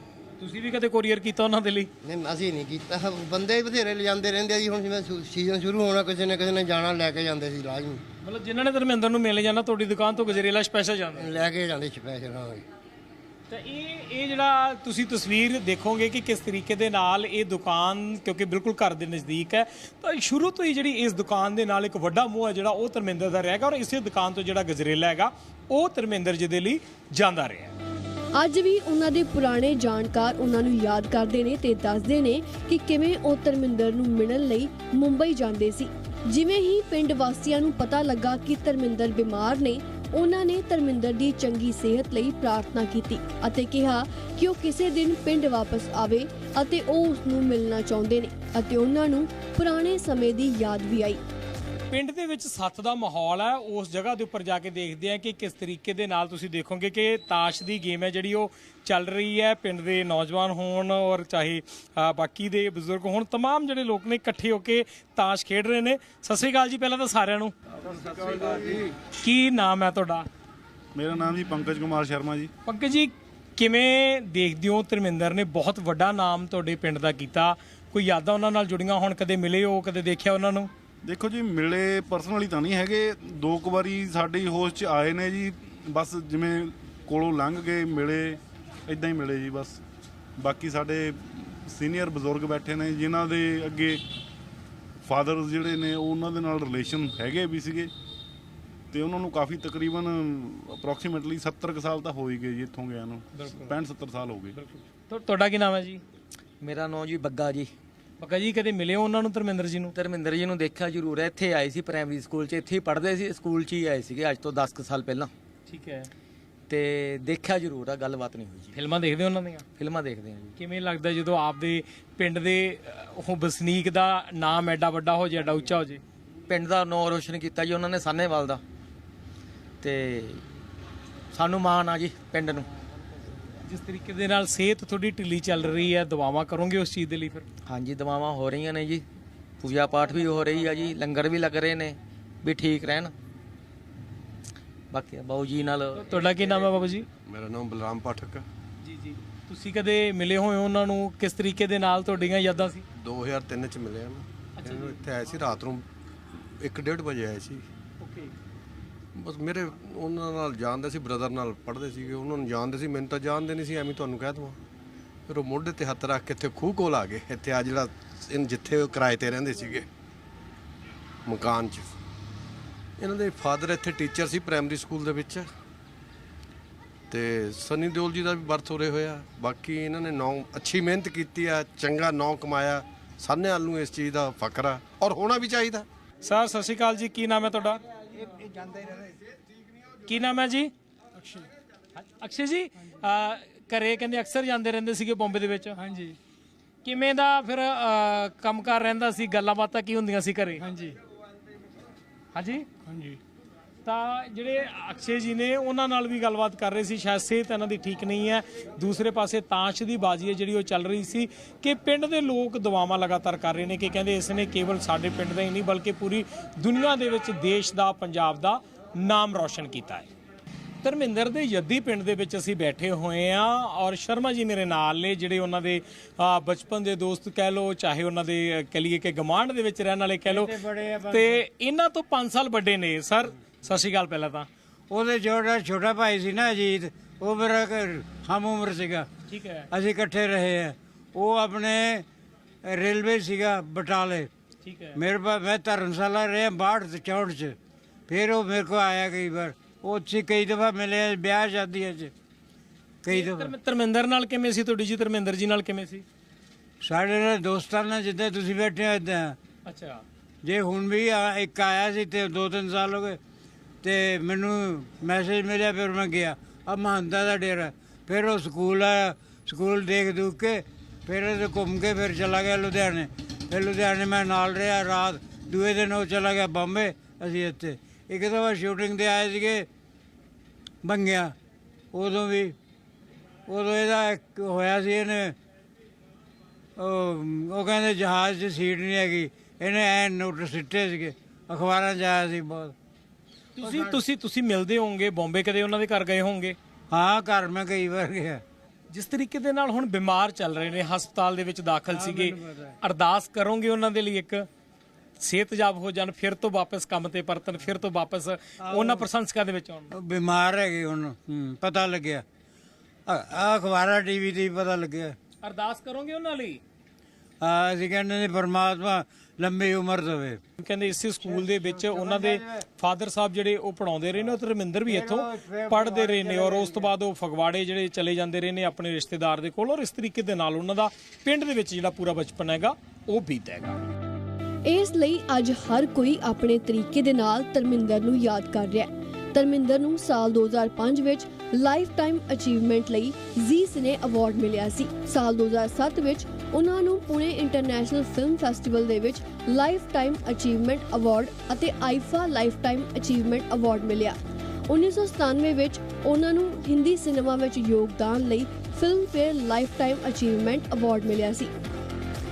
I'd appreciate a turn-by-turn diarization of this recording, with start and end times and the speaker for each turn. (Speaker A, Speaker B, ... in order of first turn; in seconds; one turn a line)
Speaker A: 0.4-1.9
Speaker B: 2.0-8.0
Speaker A: 8.2-11.4
Speaker B: 11.2-12.6
Speaker A: 13.5-27.7
Speaker C: 28.4-51.2
Speaker A: 51.9-67.5
Speaker D: 67.9-68.9
Speaker A: 69.2-70.3
Speaker E: 70.9-72.5
Speaker A: 72.7-80.7
Speaker E: 81.0-89.8
Speaker E: 90.4-94.0
Speaker E: 95.0-97.9
Speaker E: 98.9-104.6
Speaker A: 103.4-103.7
Speaker A: 104.5-106.0
Speaker F: 106.6-107.7
Speaker A: 108.2-109.9
Speaker F: 109.9-115.3
Speaker A: 115.7-116.1
Speaker F: 116.7-118.8
Speaker A: 118.7-119.7
Speaker F: 119.8-120.5
Speaker A: 120.6-126.0
Speaker F: 126.5-128.6
Speaker F: 129.8-130.4
Speaker F: 131.3-132.7
Speaker A: 133.7-137.4
Speaker F: 137.6-139.1
Speaker F: 139.6-143.1
Speaker F: 144.9-146.7
Speaker A: 145.9-147.1
Speaker D: 147.3-148.4
Speaker A: 148.8-152.8
Speaker D: 152.9-157.7
Speaker A: 154.6-155.0
Speaker A: 158.0-158.3
Speaker D: 159.1-164.6
Speaker D: 165.3-169.9
Speaker D: 171.2-171.9
Speaker D: 173.0-175.5
Speaker D: 177.1-185.9
Speaker A: 186.2-187.8
Speaker A: 190.1-190.7
Speaker A: 192.0-196.1
Speaker A: 196.8-200.9
Speaker A: 202.3-202.7
Speaker G: 202.9-203.2
Speaker A: 203.8-220.1
Speaker A: 220.8-230.5
Speaker G: 230.2-231.4
Speaker A: 231.1-234.5
Speaker G: 234.9-239.1
Speaker A: 239.3-239.7
Speaker G: 239.7-242.1
Speaker G: 242.6-244.3
Speaker A: 244.6-244.9
Speaker G: 244.9-247.6
Speaker G: 248.1-252.1
Speaker G: 253.0-253.5
Speaker A: 253.1-256.1
Speaker G: 256.8-259.4
Speaker A: 259.6-260.0
Speaker G: 260.4-263.2
Speaker G: 263.8-279.7
Speaker G: 280.8-281.4
Speaker G: 281.9-282.6
Speaker G: 283.5-285.4
Speaker G: 286.8-292.7
Speaker A: 293.6-296.6
Speaker G: 293.6-294.0
Speaker G: 296.9-298.4
Speaker A: 298.9-304.5
Speaker G: 301.9-302.8
Speaker A: 305.2-309.9
Speaker G: 308.6-309.1
Speaker G: 309.9-312.2
Speaker G: 313.1-315.1
Speaker A: 315.4-316.6
Speaker G: 317.4-320.4
Speaker A: 320.6-333.8
Speaker G: 321.2-322.6
Speaker G: 324.9-326.9
Speaker C: 334.6-354.2
Speaker C: 354.7-361.5